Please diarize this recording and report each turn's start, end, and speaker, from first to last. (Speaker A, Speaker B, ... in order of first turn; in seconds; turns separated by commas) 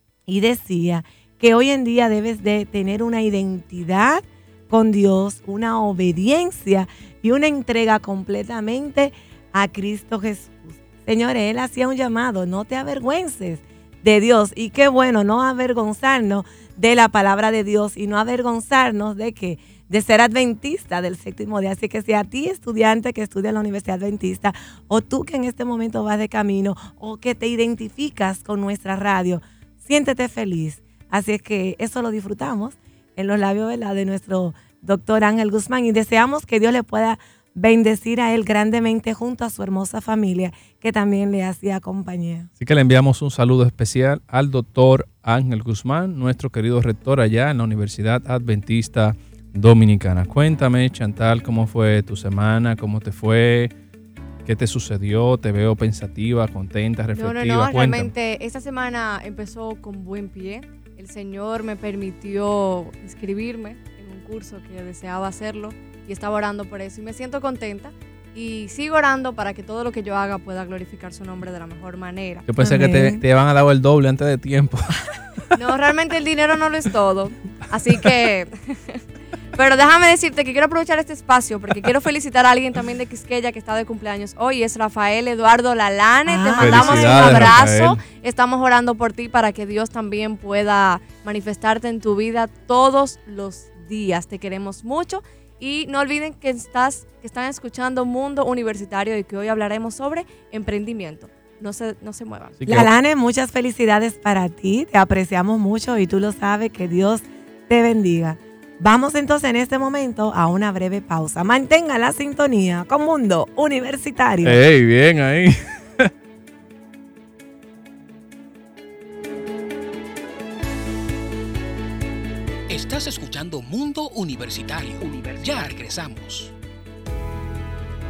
Speaker A: 0.3-42.5, Speaker B: 42.6-53.7, Speaker B: 54.5-58.1, Speaker C: 57.1-72.5, Speaker B: 72.5-75.0, Speaker A: 72.6-73.2, Speaker C: 75.5-79.0, Speaker C: 79.5-102.6, Speaker A: 86.3-87.5, Speaker B: 86.6-88.0, Speaker B: 102.6-102.9, Speaker A: 102.7-114.6, Speaker B: 114.4-116.1, Speaker D: 122.7-126.5